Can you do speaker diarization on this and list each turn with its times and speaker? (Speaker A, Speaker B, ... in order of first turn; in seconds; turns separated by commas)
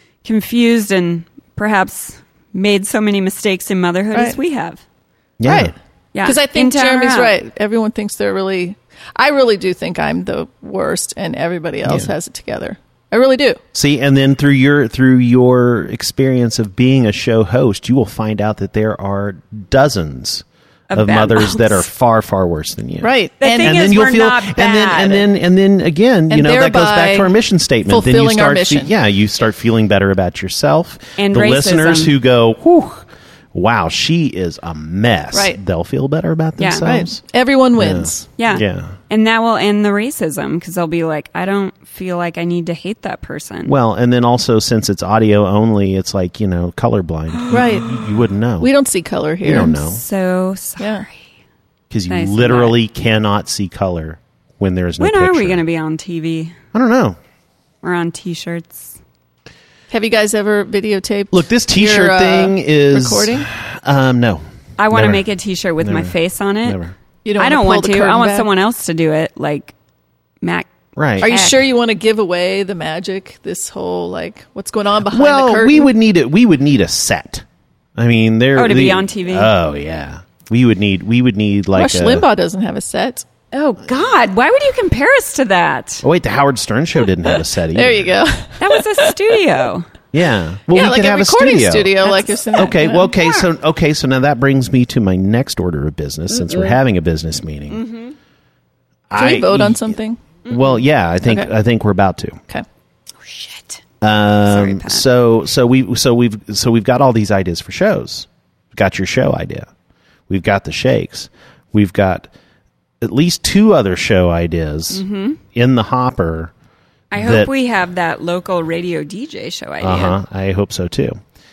Speaker A: 0.2-4.8, Speaker B: 5.4-5.7, Speaker C: 5.5-13.6, Speaker A: 6.1-7.3, Speaker B: 11.8-12.1, Speaker B: 13.7-37.2, Speaker A: 20.9-21.8, Speaker C: 23.0-23.8, Speaker A: 23.4-25.3, Speaker C: 26.3-27.3, Speaker C: 27.9-28.9, Speaker A: 31.2-32.1, Speaker C: 35.3-35.6, Speaker A: 36.6-36.9, Speaker C: 36.8-38.3, Speaker B: 37.8-38.9, Speaker A: 38.4-43.7, Speaker B: 43.6-48.7, Speaker C: 47.5-48.0, Speaker C: 48.6-49.7, Speaker B: 49.4-50.0, Speaker A: 49.5-51.2, Speaker C: 50.8-51.0, Speaker B: 51.9-55.6, Speaker A: 52.1-52.8, Speaker A: 55.0-56.5, Speaker B: 56.7-57.2, Speaker A: 57.8-58.9, Speaker C: 59.9-63.5, Speaker B: 61.3-65.2, Speaker A: 64.8-66.8, Speaker B: 65.8-66.9, Speaker C: 67.2-68.5, Speaker A: 67.4-69.7, Speaker A: 70.4-71.6, Speaker B: 71.0-71.3, Speaker C: 71.2-75.9, Speaker B: 75.1-77.4, Speaker B: 78.0-82.2, Speaker A: 78.5-79.5, Speaker C: 81.7-83.2, Speaker A: 83.5-86.0, Speaker B: 86.0-88.1, Speaker C: 87.7-89.1, Speaker A: 88.6-89.8, Speaker B: 90.1-91.9, Speaker C: 90.7-93.1, Speaker A: 92.0-93.4, Speaker B: 92.5-97.8, Speaker A: 97.7-98.1, Speaker B: 99.1-102.4, Speaker C: 99.1-100.2, Speaker A: 100.5-100.7, Speaker C: 101.2-101.5, Speaker A: 103.2-103.8, Speaker B: 104.0-109.7, Speaker A: 104.5-105.0, Speaker B: 110.3-112.3, Speaker B: 113.0-115.0, Speaker A: 114.9-115.4, Speaker B: 115.5-116.5, Speaker A: 117.1-120.2, Speaker B: 117.2-117.5, Speaker B: 119.8-121.2